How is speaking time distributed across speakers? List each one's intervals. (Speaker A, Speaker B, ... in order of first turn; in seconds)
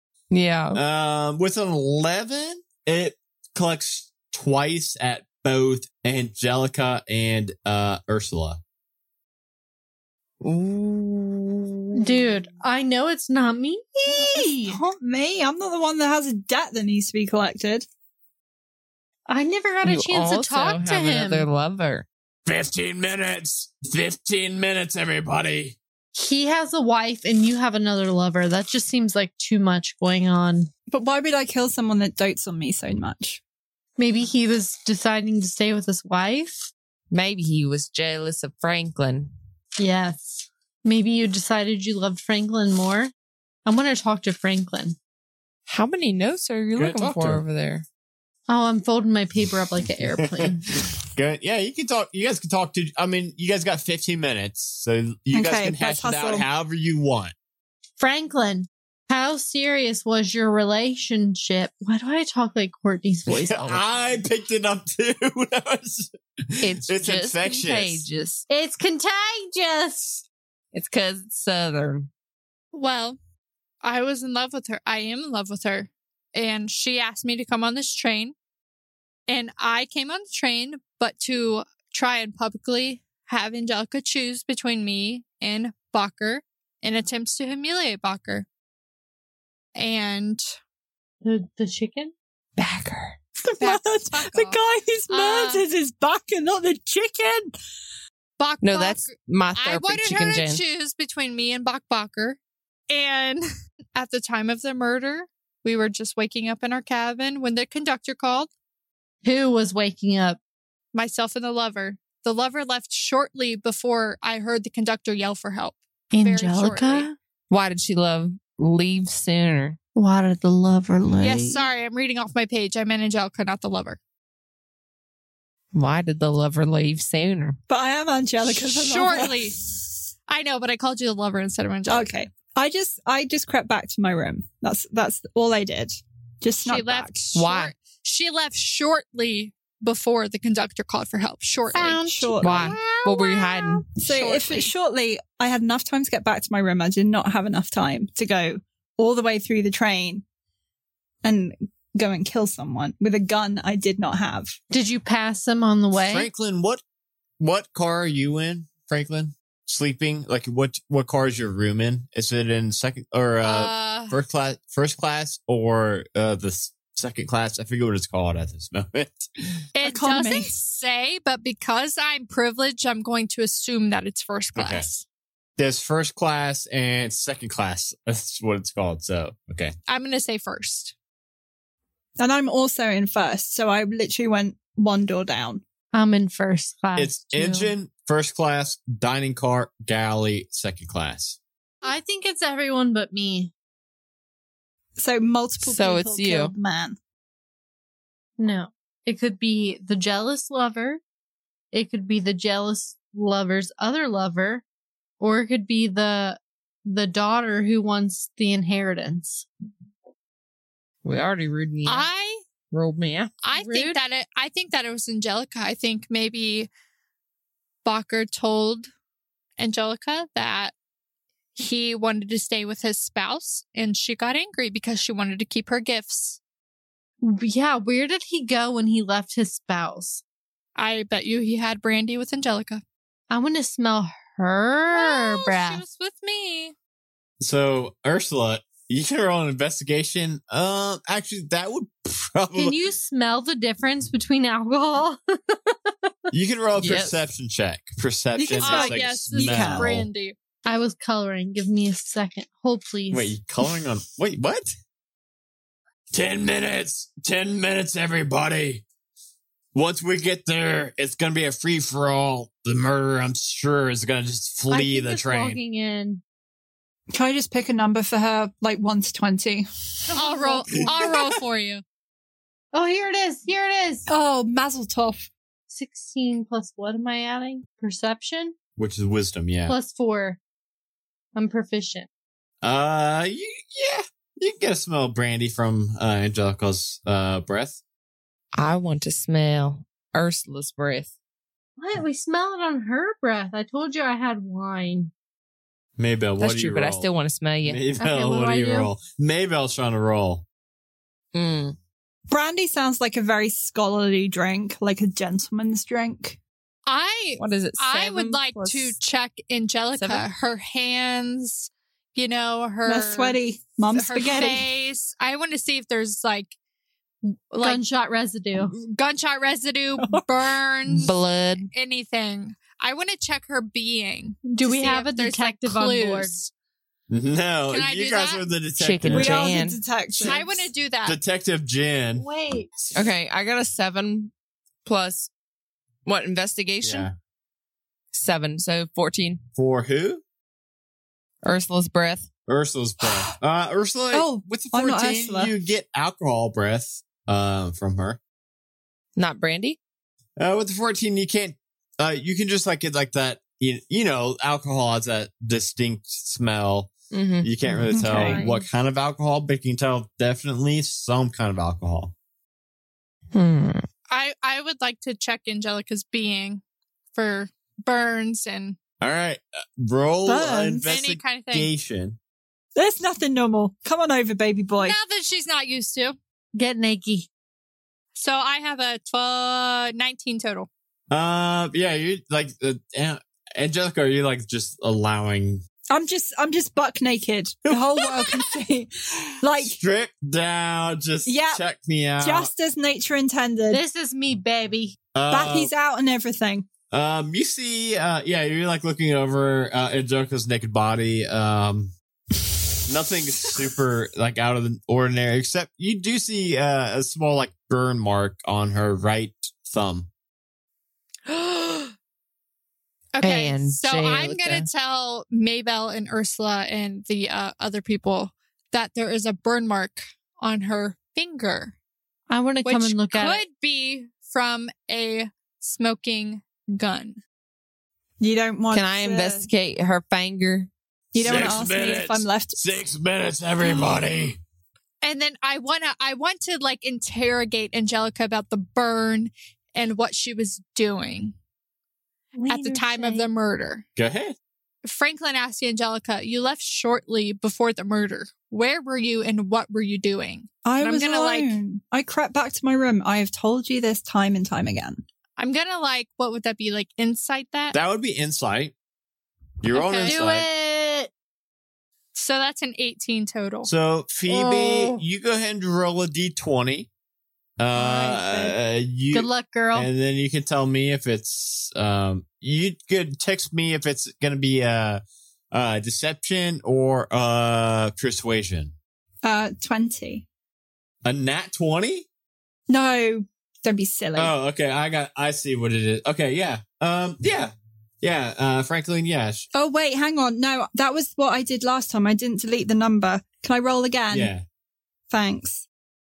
Speaker A: 0.3-0.8, 10.4-12.4, 19.8-22.1, 37.1-39.3, 45.7-47.8, 63.3-63.7, 66.6-68.4, 70.7-72.1, 98.6-100.6, 117.5-119.8, 125.7-127.6, 137.3-137.7, 142.4-143.9, 195.6-196.5, 211.0-212.1, 212.7-213.3, 246.8-247.2, 288.5-291.1, 296.4-297.8, 301.3-301.8, 307.4-308.9, 309.9-310.3, 321.0-321.7, 328.8-329.8, 332.9-334.3, 334.8-335.3, 336.0-337.1, 338.1-339.4, 341.4-342.3, 349.1-349.8, 357.1-358.4, 363.3-363.8, 413.2-414.7, 428.7-430.7
Speaker B: 0.7-8.6, 22.4-25.8, 46.7-47.4, 50.2-57.3, 63.5-68.0, 156.0-156.8, 157.4-169.3, 174.5-174.9, 175.6-179.7, 186.9-191.4, 237.4-242.8, 246.3-250.1, 253.1-254.7, 256.1-258.8, 259.7-265.6, 278.8-279.7, 282.6-287.8, 296.0-297.1, 297.6-300.4, 327.1-329.6, 331.0-332.2, 336.8-337.1, 339.6-340.2, 342.5-348.2, 350.4-362.1, 369.0-372.2, 381.1-385.6, 387.6-388.4, 389.6-392.5, 395.1-395.7, 396.9-401.9, 402.9-410.1, 431.1-434.4, 444.0-444.3, 457.7-458.7, 459.6-460.4, 463.6-466.9, 467.6-478.7, 481.0-482.1, 484.1-489.4, 494.1-494.4
Speaker C: 11.9-14.8, 19.3-21.5, 26.1-30.7, 34.0-36.7, 39.8-43.1, 43.6-45.0, 48.5-50.7, 58.0-63.8, 68.5-70.2, 91.2-92.1, 109.2-110.4, 116.1-117.2, 119.9-121.7, 141.7-143.7, 154.7-156.3, 185.9-187.7, 191.8-193.5, 198.4-201.0, 201.7-204.6, 205.2-209.5, 213.5-214.0, 227.2-230.2, 233.3-235.8, 242.5-246.3, 250.7-253.4, 264.7-266.2, 270.1-271.1, 272.7-274.1, 275.7-278.5, 279.7-280.4, 281.3-282.1, 291.8-295.1, 298.0-298.9, 317.6-318.7, 324.4-326.3, 332.1-332.7, 358.2-358.6, 376.5-377.3, 393.7-395.0, 422.3-423.4, 442.3-443.2, 460.0-461.1, 464.3-465.0, 469.1-469.9
Speaker D: 14.1-17.9, 30.9-33.4, 55.3-56.5, 92.6-97.5, 127.7-129.6, 131.9-137.3, 142.0-142.8, 144.0-150.2, 151.2-154.6, 169.8-170.6, 182.2-185.6, 194.9-197.0, 248.3-249.9, 267.1-269.6, 274.1-275.3, 302.3-306.4, 312.8-314.7, 320.0-320.3, 329.1-330.7, 344.1-345.5, 357.9-358.5, 370.2-370.9, 372.7-375.0, 385.9-388.9, 389.4-389.8, 391.2-391.6, 392.2-393.8, 395.3-396.7, 428.2-429.5, 431.1-432.8, 450.6-455.0, 467.7-468.6, 479.2-480.2, 482.7-484.4, 489.5-494.3, 495.1-495.6
Speaker E: 72.7-73.2, 73.8-78.3, 79.3-88.5, 89.7-90.4, 93.6-94.6, 95.1-95.6, 98.4-103.4, 103.9-108.5, 110.9-117.1, 121.2-124.0, 128.6-129.6, 130.3-132.1, 136.6-142.0, 144.0-144.7, 163.4-164.2, 169.8-175.0, 179.9-180.9, 211.8-212.4, 213.4-216.7, 217.8-218.9, 219.6-220.7, 221.6-226.4, 230.8-232.8, 234.9-236.7, 248.6-250.3, 270.1-271.8, 306.9-313.4, 313.9-316.5, 317.5-317.8, 318.7-326.5, 327.7-328.5, 330.2-331.2, 364.1-366.6, 367.1-368.8, 370.8-371.7, 374.8-376.1, 378.1-380.7, 413.1-421.8, 422.6-427.2, 435.0-441.3, 442.5-443.8, 444.8-451.6, 455.4-457.8, 459.7-460.2, 462.1-463.7